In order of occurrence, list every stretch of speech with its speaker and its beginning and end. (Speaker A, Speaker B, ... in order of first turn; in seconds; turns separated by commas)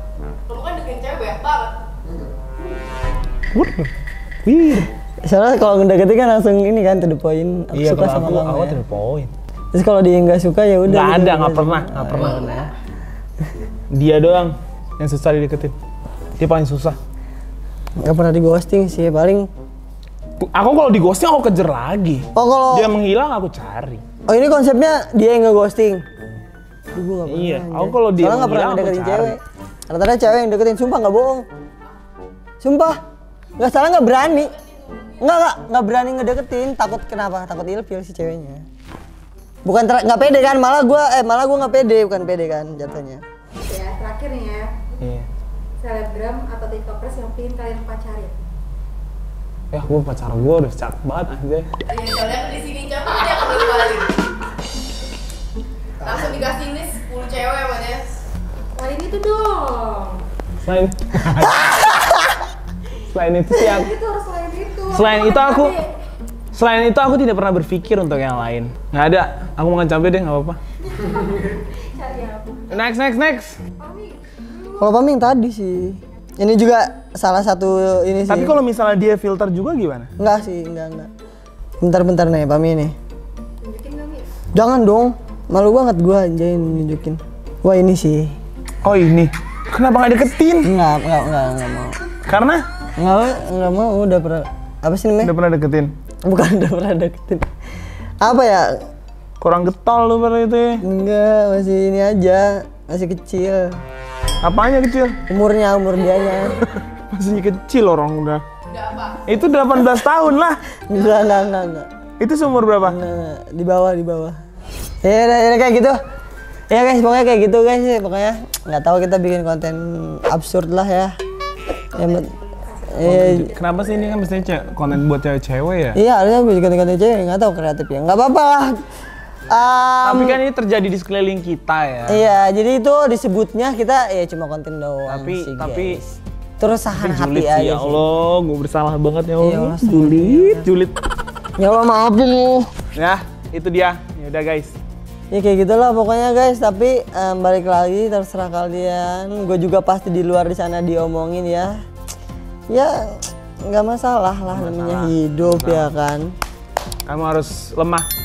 Speaker A: 0.5-1.8, Speaker B: 3.5-3.9, Speaker B: 4.5-4.9, Speaker C: 5.2-8.8, Speaker B: 7.7-9.3, Speaker C: 9.7-12.7, Speaker B: 10.9-12.5, Speaker B: 13.9-15.8, Speaker B: 16.4-17.0, Speaker C: 18.0-19.5, Speaker B: 20.4-24.0, Speaker C: 22.4-22.9, Speaker C: 24.3-26.1, Speaker C: 26.9-31.5, Speaker B: 27.3-29.4, Speaker C: 32.6-33.0, Speaker C: 33.6-34.6, Speaker A: 34.6-35.1, Speaker C: 35.2-38.7, Speaker C: 39.6-43.2, Speaker D: 43.6-44.8, Speaker B: 45.0-45.3, Speaker D: 45.8-48.3, Speaker B: 49.7-51.7, Speaker A: 51.9-54.2, Speaker A: 56.0-58.0, Speaker D: 58.8-60.2, Speaker B: 60.6-62.2, Speaker B: 63.1-63.9, Speaker D: 63.6-65.8, Speaker B: 64.9-65.8, Speaker B: 66.5-70.6, Speaker D: 70.9-72.9, Speaker B: 72.7-73.6, Speaker D: 73.8-74.9, Speaker C: 74.8-78.6, Speaker B: 78.3-80.1, Speaker C: 80.2-81.1, Speaker C: 81.8-83.0, Speaker D: 83.6-84.3, Speaker C: 84.5-88.4, Speaker B: 88.8-90.7, Speaker C: 90.6-92.1, Speaker B: 92.2-92.6, Speaker C: 93.0-95.3, Speaker B: 95.2-95.9, Speaker C: 96.2-97.5, Speaker C: 98.2-98.8, Speaker B: 99.4-100.8, Speaker C: 100.8-103.8, Speaker B: 104.4-105.2, Speaker C: 105.3-106.6, Speaker B: 106.7-108.4, Speaker A: 108.7-109.4, Speaker B: 109.3-110.6, Speaker C: 110.9-111.9, Speaker B: 112.2-113.0, Speaker C: 112.8-114.4, Speaker C: 115.0-116.0, Speaker C: 116.7-121.1, Speaker C: 121.9-122.3, Speaker C: 122.9-123.5, Speaker B: 123.0-126.0, Speaker C: 125.9-128.8, Speaker C: 129.5-130.4, Speaker B: 130.0-132.3, Speaker C: 132.1-138.0, Speaker B: 135.1-136.0, Speaker B: 137.0-140.9, Speaker C: 139.4-140.7, Speaker C: 141.6-142.8, Speaker B: 143.0-144.8, Speaker C: 145.3-151.8, Speaker C: 152.7-156.3, Speaker B: 154.5-155.9, Speaker B: 157.1-158.1